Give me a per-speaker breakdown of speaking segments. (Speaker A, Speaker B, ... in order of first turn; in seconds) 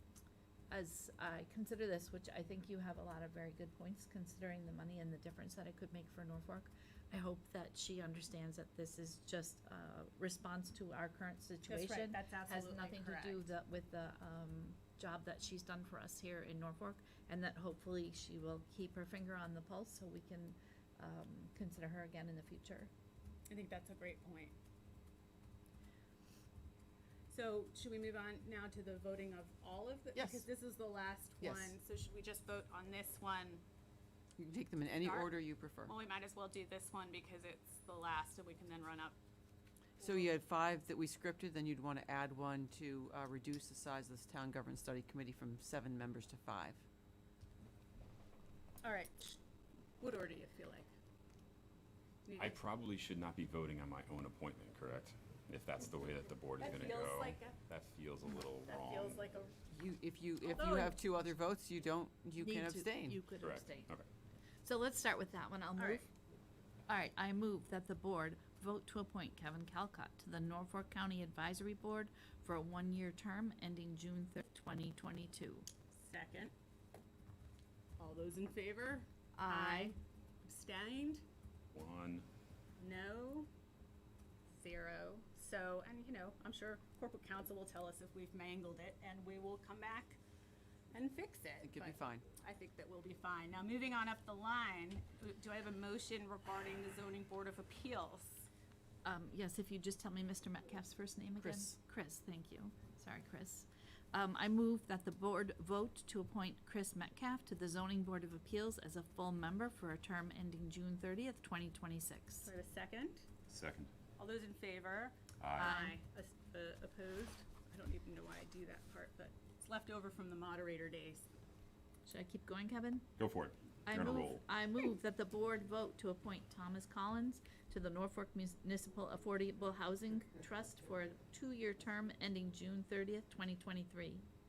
Speaker A: 0.7-22.9, 62.4-63.9, 64.6-66.1, 66.9-75.7, 79.3-80.0, 99.0-112.5, 115.6-116.0, 122.0-123.1, 123.9-134.2
Speaker B: 11.7-13.5, 23.5-24.6, 27.3-33.6, 35.0-35.3, 35.9-39.2, 40.0-40.3, 48.8-49.4, 50.0-50.9, 52.3-52.6, 56.6-57.6, 58.5-59.5, 60.4-61.0, 65.8-66.1, 75.9-76.5, 78.0-81.2, 82.8-83.5, 84.5-90.2, 90.9-98.5, 112.5-113.3, 114.2-121.3
Speaker C: 30.1-30.5, 31.4-31.8, 34.4-36.0, 40.0-46.8, 59.7-63.2, 91.6-92.3, 101.4-101.7
Speaker D: 52.4-59.3, 63.4-64.1, 81.7-82.3, 113.5-113.9, 115.4-115.8, 123.2-124.4